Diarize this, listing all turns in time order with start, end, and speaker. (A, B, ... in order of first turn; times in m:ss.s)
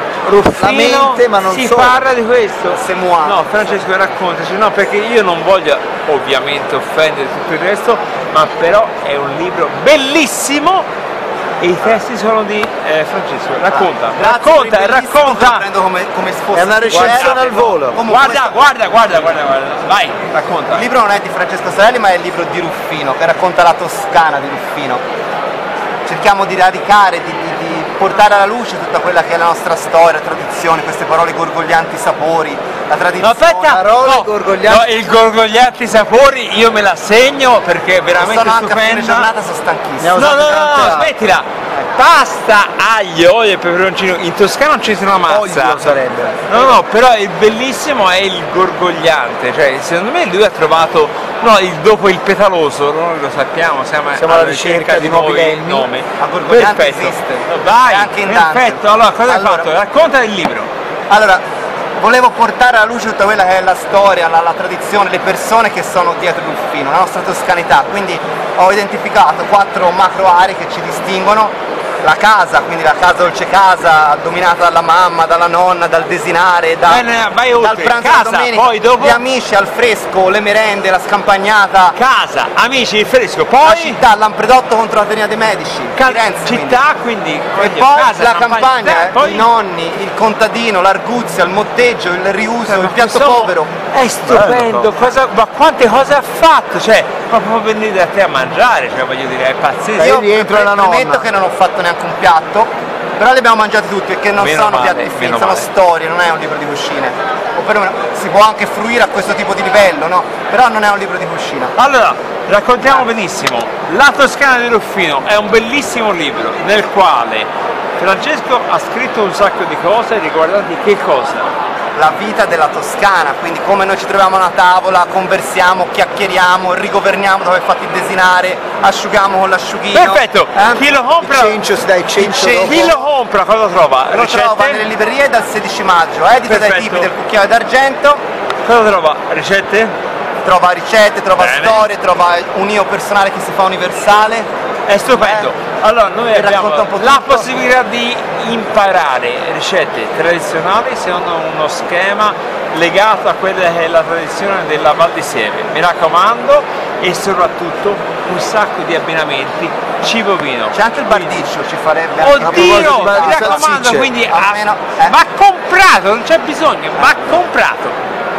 0:00.3-0:02.0 A
0:00.3-0:10.9 B
0:02.7-0:03.7 C
0:11.6-0:15.6 B
0:13.7-0:18.6 C
0:16.5-0:18.0 A
0:16.9-0:20.8 B
0:20.7-0:25.0 C
0:26.1-0:33.8 C
0:33.2-0:39.3 B
0:33.6-0:34.9 A
0:38.2-0:41.0 C
0:40.0-0:41.1 A
0:40.1-0:46.0 B
0:45.3-0:46.7 A
0:46.5-1:00.7 B
0:54.2-0:55.9 A
0:56.2-0:59.7 C
1:01.1-1:01.4 C
1:02.0-1:11.5 C
1:12.0-1:17.0 C
1:16.9-1:19.2 B
1:17.6-1:22.0 C
1:22.0-1:24.0 B
1:23.6-1:26.8 C
1:26.0-1:29.5 B
1:27.6-1:33.7 C
1:32.7-1:40.2 B
1:34.3-1:34.9 A
1:40.0-1:41.3 A
1:40.0-1:51.7 C
1:44.4-1:45.7 B
1:51.8-2:01.5 B
2:02.0-2:10.9 C
2:09.9-2:11.6 B
2:11.2-2:13.0 A
2:12.2-2:13.0 C
2:12.6-2:14.8 B
2:14.1-2:18.2 C
2:16.4-2:17.1 B
2:18.6-2:19.9 B
2:20.4-2:24.5 C
2:21.4-2:21.9 B
2:24.9-2:41.5 B
2:25.2-2:25.5 C
2:26.3-2:27.5 C
2:40.7-2:45.2 C
2:42.2-2:48.0 B
2:42.4-2:44.1 A